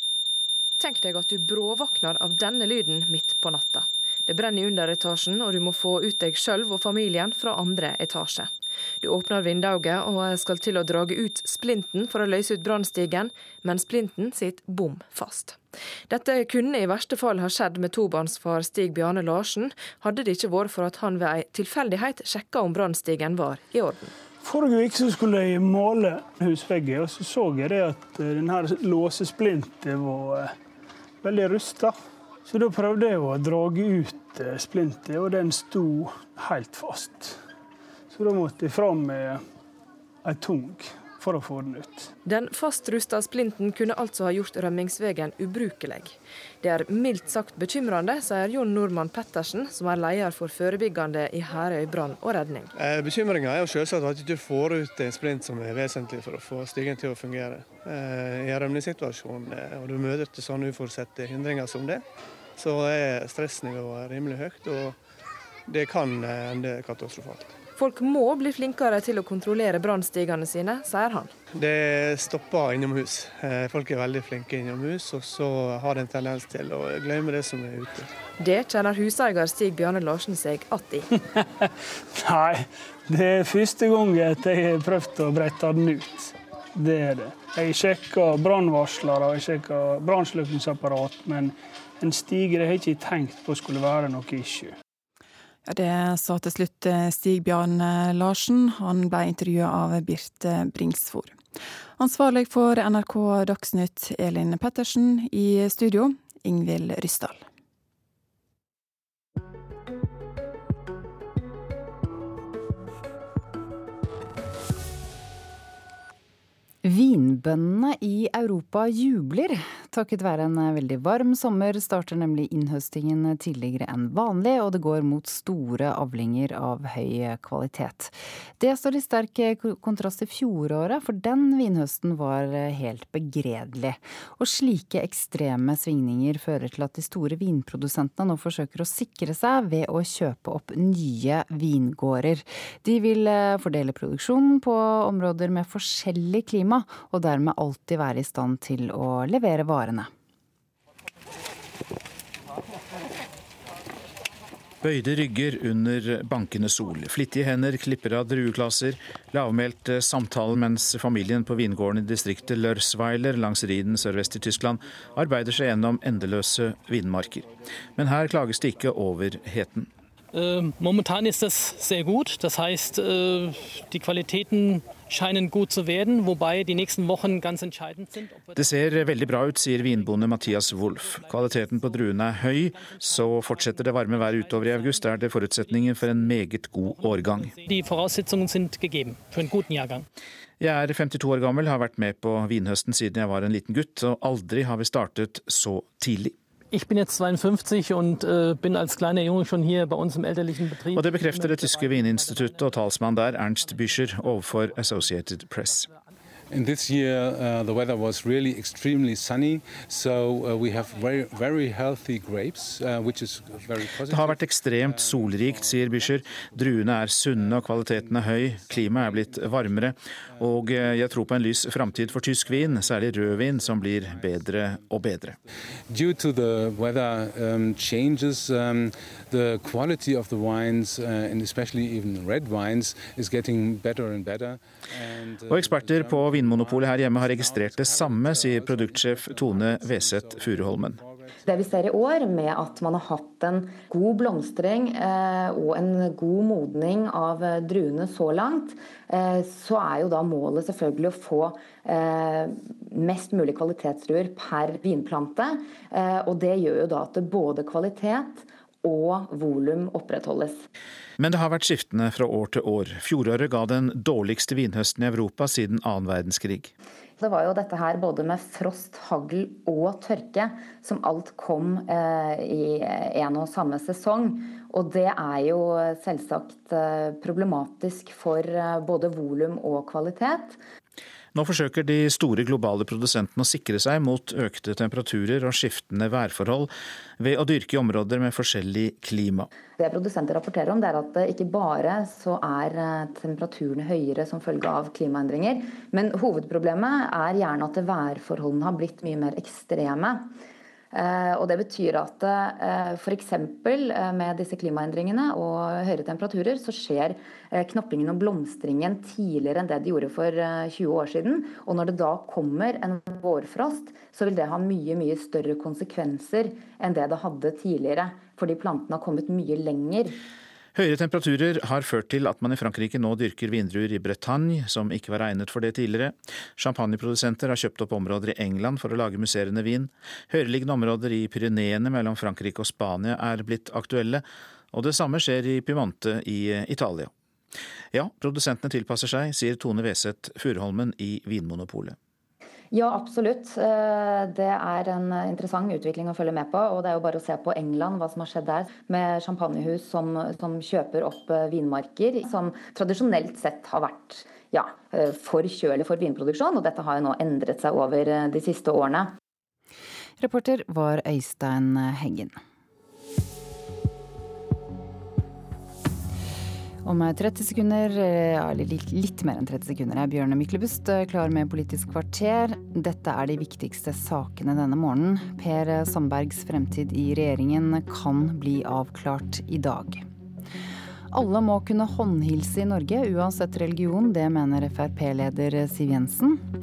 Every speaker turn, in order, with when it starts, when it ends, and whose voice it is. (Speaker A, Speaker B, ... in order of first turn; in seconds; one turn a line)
Speaker A: 0.8-24.1
Speaker B: 24.4-30.5
Speaker B: 31.2-31.9
Speaker B: 32.5-37.4
Speaker B: 38.1-39.4
Speaker B: 40.2-42.1
Speaker A: 42.2-52.7
Speaker C: 52.8-62.0
Speaker C: 62.6-65.0
Speaker C: 65.7-67.5
Speaker A: 67.8-71.3
Speaker C: 71.5-78.1
Speaker A: 78.4-81.1
Speaker B: 82.2-94.7
Speaker D: 95.7-101.3
Speaker D: 102.0-107.4
Speaker E: 116.8-150.1
Speaker F: 154.8-169.9
Speaker G: 170.4-178.4
Speaker F: 178.5-187.5
Speaker G: 187.1-190.0
Speaker F: 190.6-196.3
Speaker G: 196.7-202.3
Speaker F: 200.9-205.9
Speaker H: 206.5-241.7
Speaker F: 214.0-225.4
Speaker F: 235.5-241.0
Speaker I: 241.4-260.6
Speaker F: 261.2-266.7
Speaker I: 267.2-280.6
Speaker F: 281.3-289.5
Speaker I: 289.8-300.3
Speaker I: 300.9-320.2
Speaker F: 320.7-337.1
Speaker F: 337.9-341.9
Speaker I: 342.7-359.1
Speaker E: 360.2-362.4
Speaker E: 366.8-380.0
Speaker E: 381.1-386.4